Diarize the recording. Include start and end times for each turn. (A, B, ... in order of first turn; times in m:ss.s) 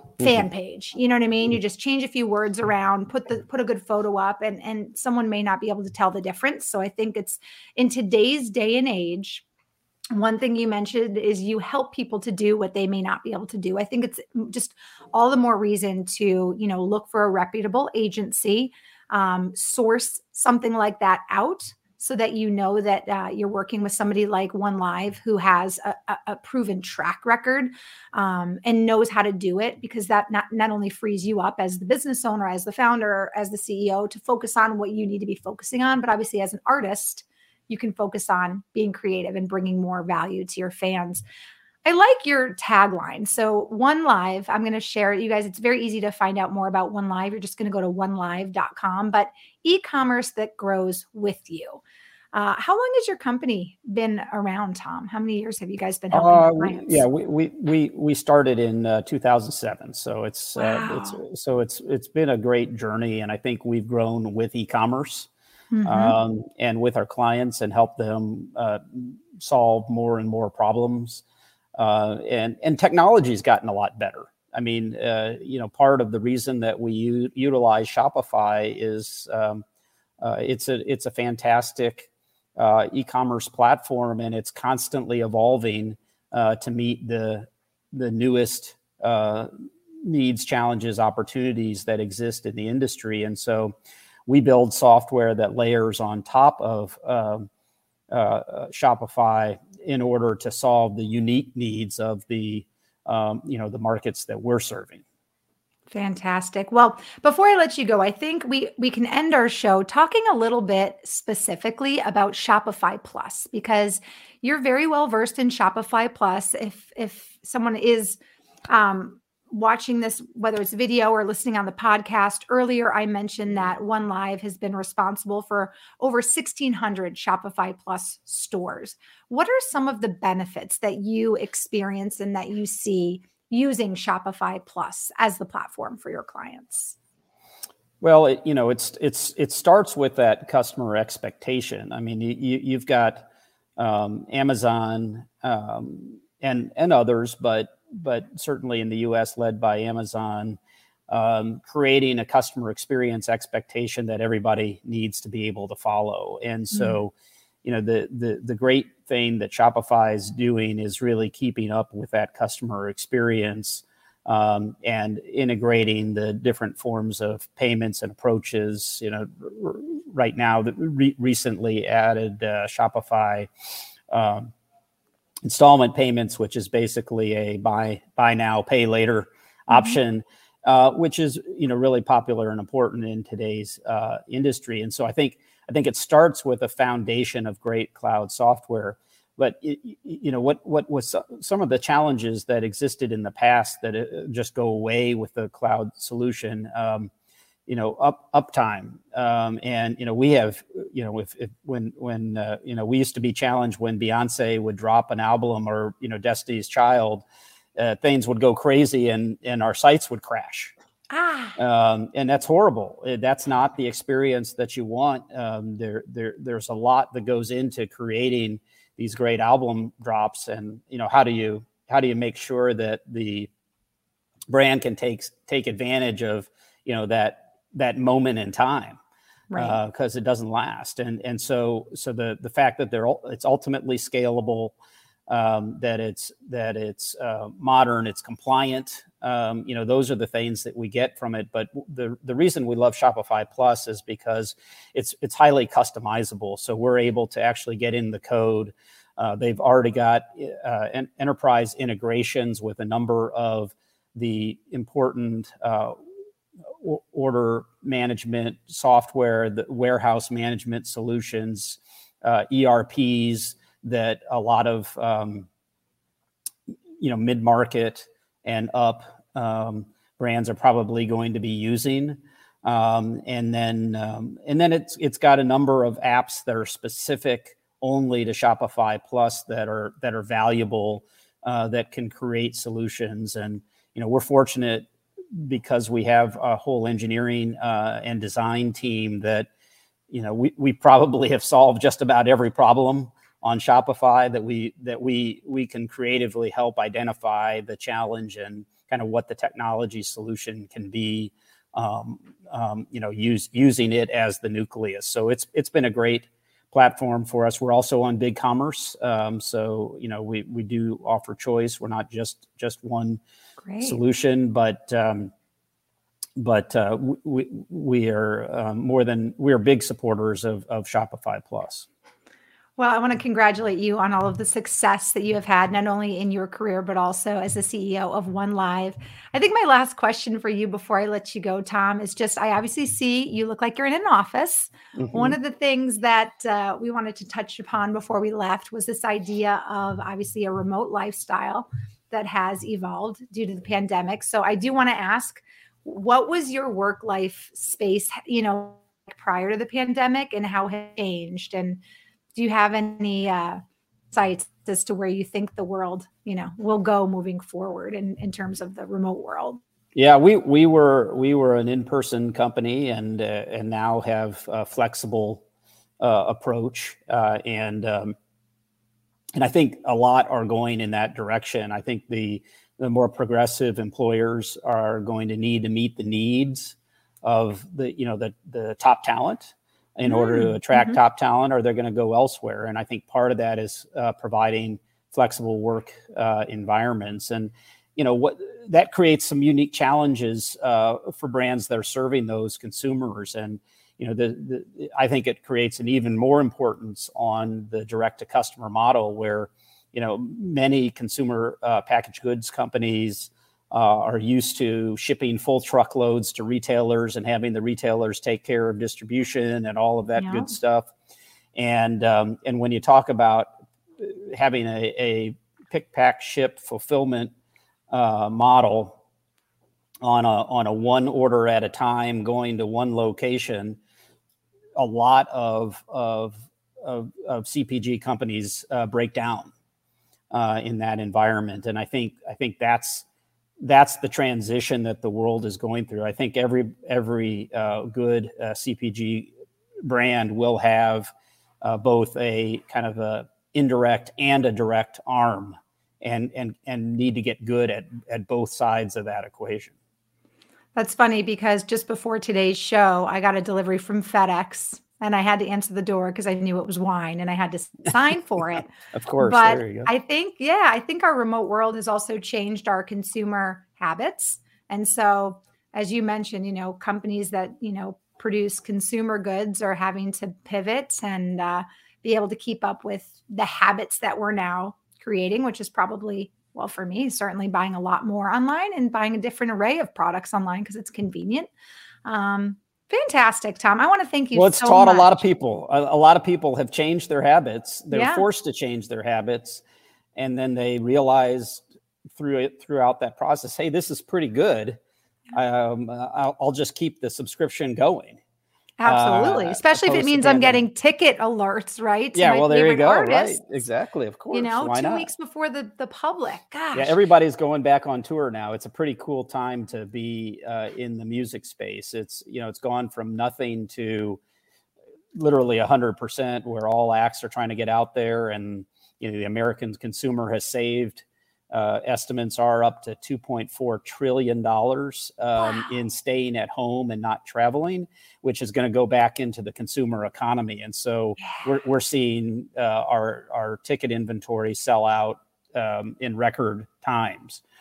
0:00.2-0:09.4 A
0:10.1-0:41.2 A
0:41.8-0:51.8 A
0:52.3-0:57.0 A
0:56.1-1:05.3 B
1:00.6-1:01.2 A
1:05.7-1:06.2 A
1:05.8-1:11.2 B
1:11.8-1:19.6 B
1:20.2-1:29.5 B
1:30.0-1:33.8 B
1:34.3-1:37.5 B
1:38.1-1:45.0 B
1:45.9-1:58.2 A
1:58.7-2:17.0 A
2:18.0-2:30.6 B
2:31.1-2:37.1 B
2:36.7-2:37.0 A
2:37.6-2:53.5 B
2:54.1-2:54.5 B
2:55.4-3:17.1 B
2:59.7-3:00.0 A
3:17.7-3:27.2 B
3:27.8-3:30.7 B
3:31.1-3:31.6 A
3:31.6-3:43.5 B
3:44.5-3:49.0 B
3:49.5-3:49.8 A
3:49.6-3:54.8 B
3:55.3-4:16.0 B
4:16.8-4:25.5 B
4:27.0-4:49.5 B
4:50.1-5:13.2 B
5:13.6-5:14.0 A
5:13.8-5:15.3 B
5:16.4-5:21.9 B
5:22.8-5:51.8 A
5:35.0-5:35.4 B
5:52.4-5:53.6 A
5:54.1-5:59.6 A
6:00.0-6:05.4 B
6:06.0-6:08.2 B
6:09.4-6:50.9 B
6:20.1-6:21.0 A
6:50.2-6:50.6 A
6:51.6-6:57.3 B
6:57.9-6:59.0 B
7:00.0-7:03.8 B
7:04.8-7:09.5 B
7:10.3-7:13.0 B
7:13.6-7:19.3 B
7:19.8-7:29.7 B
7:30.8-8:01.5 A
7:38.9-7:39.9 B
8:02.0-8:05.2 A
8:04.3-8:09.6 B
8:07.9-8:08.3 A
8:10.2-8:14.8 B
8:15.3-8:18.2 B
8:18.8-8:23.5 A
8:18.8-8:20.6 B
8:22.2-8:25.1 B
8:24.3-8:27.0 A
8:26.7-8:34.2 B
8:35.2-8:57.4 B
8:45.4-8:45.7 A